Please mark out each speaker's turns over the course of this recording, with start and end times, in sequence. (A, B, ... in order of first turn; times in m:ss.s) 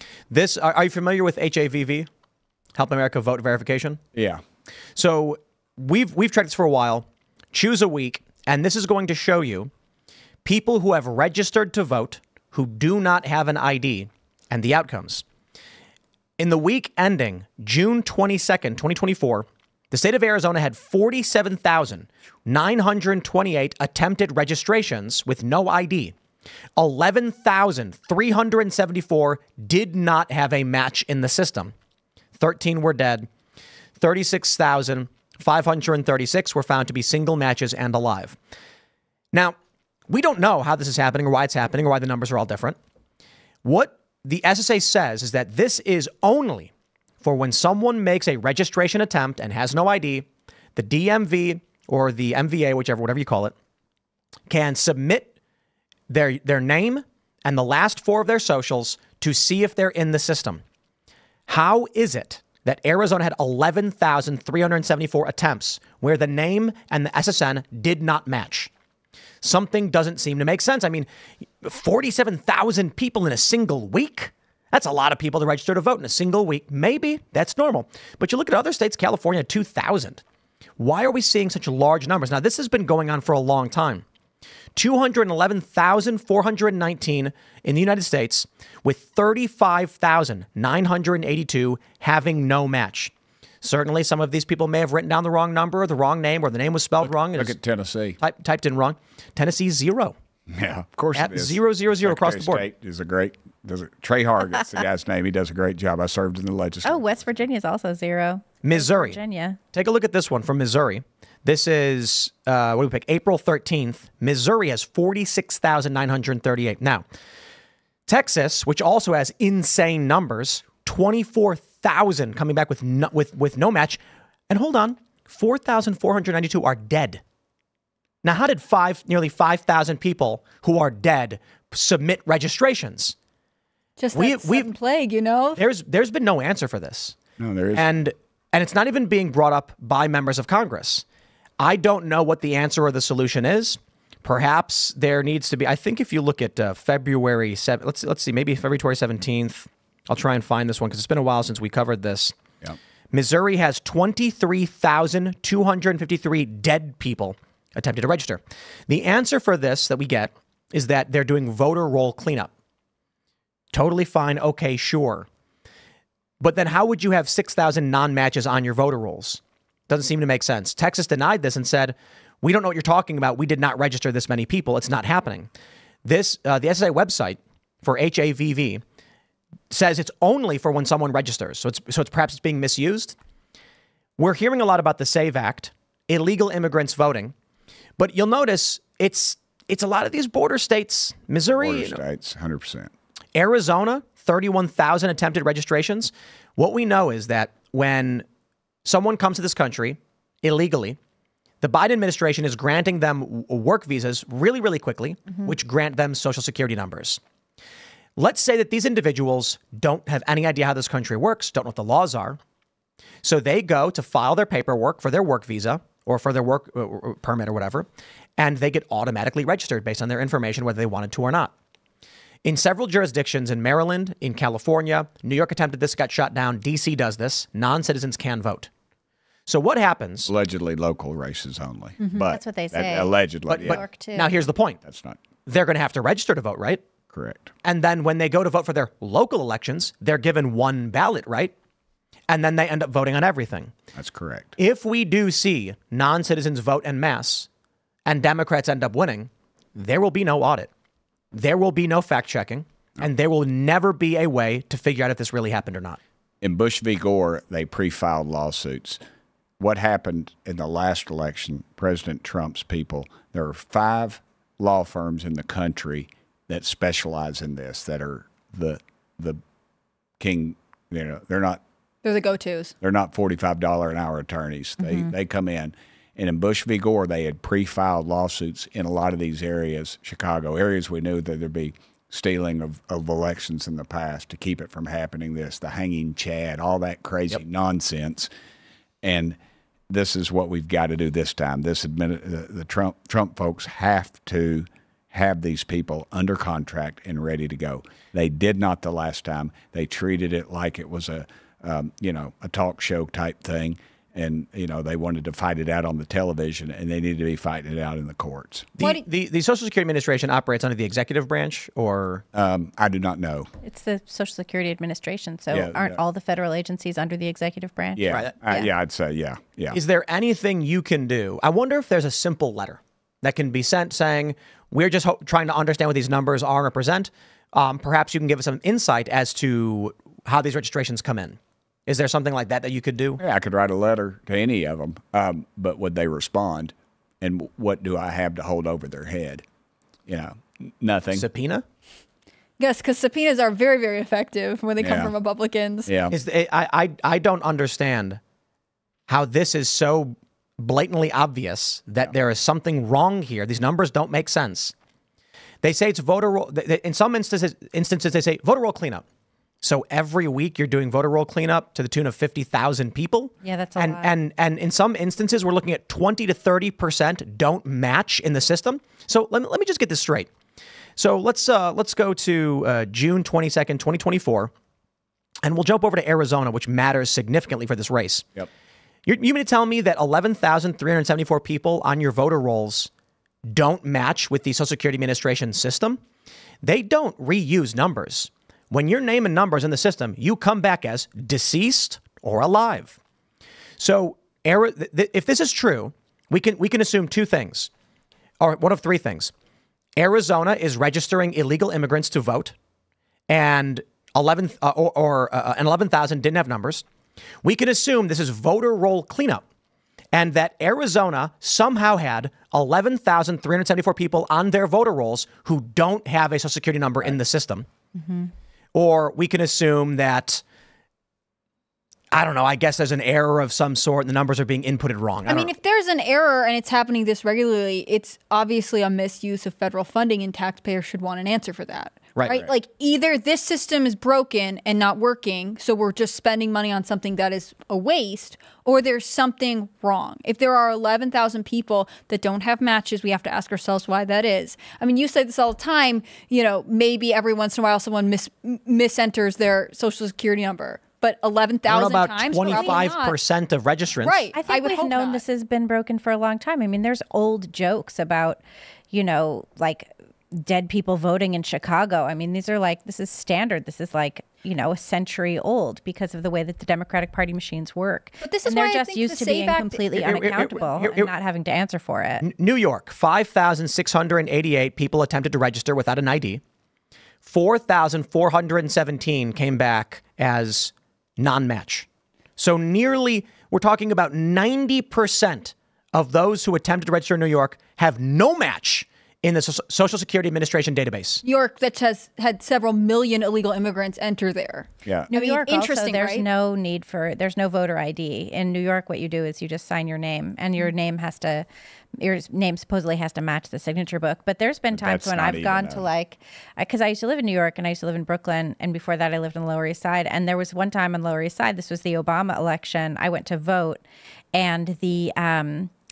0:00.3-0:02.1 A
0:02.8-0:04.0 A
0:04.1-0:04.4 B
0:04.9-0:09.7 A
0:10.4-0:15.2 A
0:16.4-0:26.1 A
0:26.8-0:31.7 A
0:32.4-0:33.3 A
0:34.0-0:38.4 A
0:40.1-0:42.8 A
0:43.6-0:46.7 A
0:47.2-0:53.5 A
0:54.5-0:55.3 A
0:56.1-1:00.6 A
1:01.5-1:08.7 A
1:09.4-1:11.1 A
1:11.6-1:20.2 A
1:20.8-1:24.0 A
1:24.8-1:37.6 A
1:37.0-1:38.2 B
1:38.2-1:40.2 A
1:40.5-1:47.4 B
1:41.1-1:42.7 A
1:46.8-1:49.6 C
1:48.6-1:49.2 A
1:49.7-1:57.0 A
1:58.1-2:07.2 A
2:08.2-2:13.2 A
2:14.0-2:15.6 D
2:14.1-2:14.7 A
2:15.6-2:17.2 A
2:17.4-2:17.9 B
2:17.7-2:21.0 A
2:21.6-2:32.3 A
2:33.1-2:42.5 A
2:43.7-2:45.3 A
2:46.4-2:55.5 A
2:56.0-2:58.8 A
2:59.7-3:03.2 A
3:04.2-3:07.3 A
3:08.0-3:12.0 A
3:11.5-3:12.9 B
3:13.3-3:18.2 A
3:18.8-3:21.0 A
3:21.6-3:27.2 A
3:28.2-3:32.4 A
3:33.2-3:37.9 A
3:38.4-3:41.5 A
3:42.4-3:48.7 A
3:49.5-3:50.3 A
3:50.3-3:53.8 B
3:52.2-3:54.3 C
3:53.5-3:54.8 A
3:54.8-3:55.2 B
3:55.4-3:56.8 A
3:57.1-3:57.5 B
3:57.6-4:01.5 A
4:02.3-4:03.7 A
4:03.9-4:04.5 B
4:04.6-4:07.5 A
4:08.0-4:10.7 A
4:11.3-4:16.0 A
4:16.4-4:19.0 B
4:19.6-4:29.4 B
4:30.2-4:31.6 B
4:32.0-4:32.7 D
4:32.8-4:48.3 B
4:34.8-4:35.1 C
4:49.0-4:49.4 B
4:49.9-5:08.7 B
5:08.8-5:12.2 A
5:12.3-5:13.5 B
5:13.6-5:18.7 C
5:15.5-5:16.0 B
5:18.0-5:19.8 B
5:18.0-5:18.6 A
5:19.7-5:33.2 A
5:33.2-5:39.4 B
5:40.1-5:41.2 B
5:41.1-5:41.6 A
5:42.6-5:45.9 D
5:44.8-5:45.1 B
5:45.9-5:46.1 B
5:46.1-5:48.2 A
5:49.1-5:54.7 A
5:55.6-5:59.0 A
5:59.6-6:10.3 A
6:03.4-6:04.1 C
6:11.0-6:14.5 A
6:15.4-6:18.4 A
6:19.0-6:22.9 A
6:23.5-6:26.0 A
6:26.6-6:33.0 A
6:33.8-6:37.7 A
6:38.4-6:39.3 A
6:40.0-6:42.5 A
6:43.3-6:46.8 A
6:47.4-6:49.4 A
6:50.1-6:57.7 A
6:57.9-6:58.3 C
6:58.7-7:00.4 A
7:02.1-7:05.5 A
7:05.3-7:33.2 D
7:31.7-7:34.3 A
7:32.5-7:32.7 C
7:34.0-7:35.2 D
7:34.3-7:52.2 C
7:48.2-7:50.1 D
7:50.0-7:51.1 A
7:52.2-7:56.4 A
7:57.2-8:11.2 A
8:11.2-8:16.2 D
8:14.8-8:15.1 B
8:15.1-8:21.5 C
8:22.0-8:35.7 C
8:24.7-8:25.8 B